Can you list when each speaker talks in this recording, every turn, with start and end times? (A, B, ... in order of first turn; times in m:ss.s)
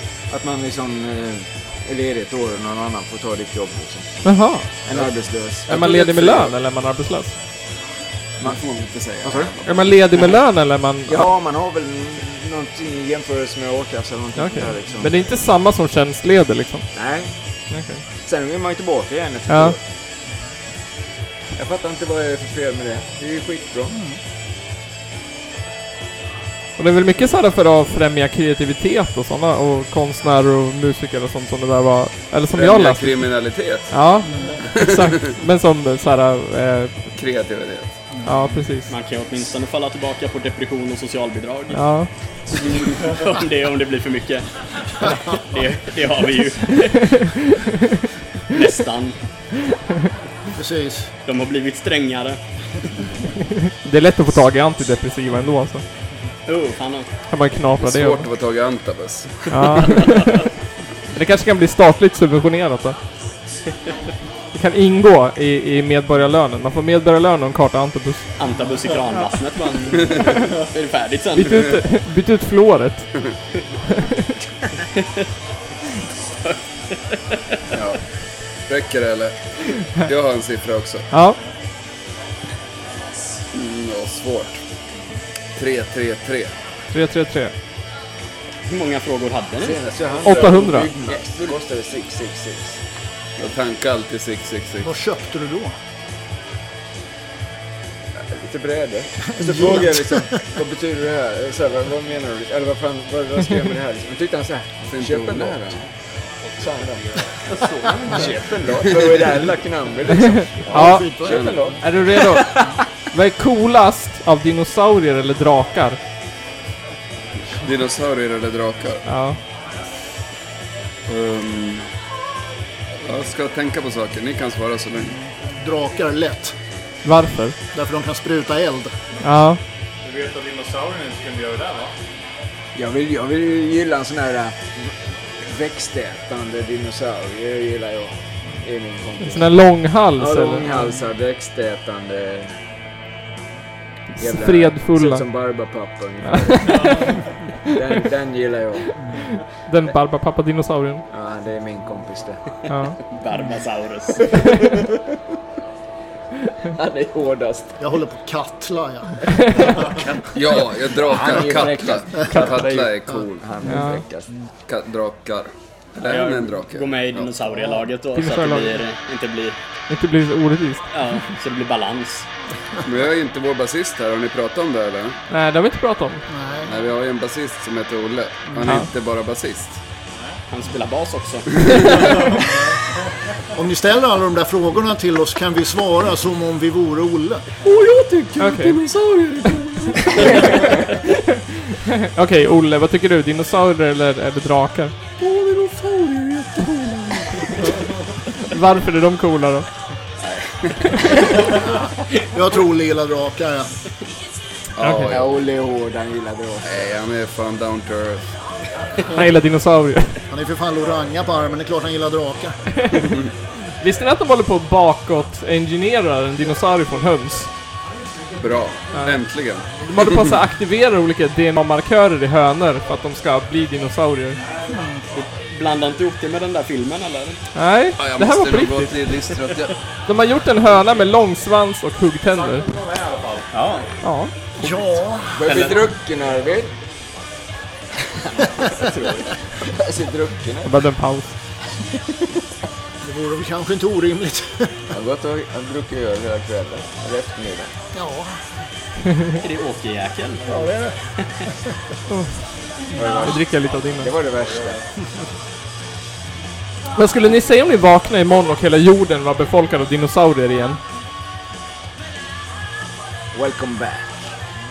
0:00.3-0:04.1 A
0:04.2-0:04.7 B
0:04.8-0:05.8 A
0:05.7-0:07.4 B
0:05.7-0:06.5 C
0:08.4-0:09.9 C
0:09.2-0:09.5 A
0:09.6-0:11.2 B
0:11.1-0:15.2 A
0:14.4-0:16.8 B
0:16.9-0:17.3 A
0:17.7-0:18.0 B
0:18.2-0:19.8 A
0:19.5-0:19.8 B
0:21.5-0:24.0 A
0:23.9-0:24.2 D
0:26.8-0:33.3 B
0:32.5-0:33.9 C
0:33.9-0:37.0 B
0:34.3-0:34.6 D
0:34.7-0:35.1 C
0:37.1-0:37.9 C
0:38.1-0:38.6 D
0:38.2-0:38.9 B
0:38.9-0:41.8 E
0:41.7-0:42.1 B
0:42.5-0:47.2 E
0:46.8-0:47.8 B
0:48.5-0:49.2 E
0:50.6-0:51.1 D
0:51.3-0:52.4 E
0:53.8-0:55.8 B
0:56.5-0:57.1 E
0:57.3-0:58.3 B
0:57.8-1:00.1 C
0:59.5-1:00.4 B
1:00.0-1:00.4 E
1:01.1-1:03.0 B
1:04.5-1:08.3 B
1:08.4-1:11.8 E
1:11.3-1:13.2 B
1:14.0-1:14.3 B
1:14.9-1:15.3 E
1:16.4-1:17.6 E
1:18.7-1:21.1 C
1:21.1-1:21.4 B
1:23.5-1:24.6 C
1:25.6-1:26.5 C
1:26.9-1:27.5 B
1:28.6-1:29.8 E
1:29.6-1:32.8 A
1:30.2-1:30.9 B
1:31.1-1:31.5 E
1:33.4-1:34.9 C
1:34.8-1:35.7 D
1:38.2-1:45.8 A
1:39.3-1:40.4 D
1:44.9-1:45.8 C
1:46.4-1:48.6 F
1:46.6-1:47.2 A
1:47.6-1:48.3 E
1:48.0-1:52.8 A
1:48.8-1:49.3 C
1:50.2-1:51.1 B
1:50.7-1:51.7 D
1:51.2-1:51.6 C
1:51.8-1:52.6 B
1:53.1-1:56.0 B
1:57.5-1:59.0 C
1:59.0-1:59.4 B
2:01.1-2:01.9 C
2:03.0-2:05.1 C
2:05.2-2:06.5 D
2:07.0-2:07.5 B
2:07.7-2:09.0 D
2:09.2-2:09.6 B
2:10.0-2:11.9 F
2:12.7-2:19.6 A
2:19.2-2:20.9 B
2:20.1-2:22.5 A
2:24.2-2:25.2 B
2:24.2-2:27.1 A
2:26.3-2:27.0 B
2:26.6-2:27.3 F
2:27.7-2:28.9 A
2:29.6-2:31.0 B
2:31.1-2:32.4 A
2:32.7-2:33.0 B
2:33.1-2:34.6 E
2:36.6-2:37.8 A
2:37.8-2:39.8 D
2:39.5-2:40.2 F
2:40.3-2:43.5 C
2:41.0-2:44.3 A
2:43.6-2:44.0 B
2:44.7-2:47.3 C
2:46.0-2:49.6 E
2:48.1-2:48.8 B
2:49.9-2:50.8 B
2:50.9-2:52.3 E
2:52.8-2:55.2 C
2:55.3-2:56.2 B
2:56.3-2:56.7 D
2:56.6-2:59.8 C
3:00.5-3:02.4 E
3:02.0-3:02.5 F
3:02.3-3:02.8 D
3:03.5-3:07.5 D
3:07.6-3:10.0 C
3:07.7-3:09.1 A
3:08.4-3:08.8 B
3:09.9-3:10.8 A
3:11.7-3:14.9 B
3:15.2-3:16.4 C
3:16.7-3:17.2 A
3:18.5-3:19.7 B
3:21.0-3:21.4 A
3:22.3-3:23.7 D
3:24.8-3:25.4 C
3:24.8-3:25.2 B
3:25.1-3:26.8 A
3:26.6-3:28.2 C
3:29.1-3:30.2 B
3:30.3-3:32.6 D
3:33.0-3:33.2 C
3:33.8-3:37.5 B
3:38.4-3:40.3 C
3:39.8-3:44.4 B
3:44.7-3:45.0 D
3:45.1-3:47.4 E
3:47.5-3:49.3 B
3:48.0-3:49.7 C
3:50.0-3:52.7 B
3:52.3-3:53.8 F
3:53.5-3:53.9 E
3:54.0-3:54.3 B
3:54.6-3:55.7 D
3:55.3-3:56.7 A
3:55.4-3:55.8 E
3:58.7-3:59.3 E
3:59.6-4:00.8 A
4:00.6-4:01.3 B
4:03.0-4:04.8 D
4:04.9-4:07.7 A
4:07.9-4:08.4 D
4:09.4-4:10.6 E
4:10.5-4:10.9 D
4:12.1-4:12.4 B
4:12.9-4:13.4 A
4:13.2-4:14.1 B
4:14.0-4:14.8 A
4:17.0-4:20.8 B
4:23.3-4:24.2 A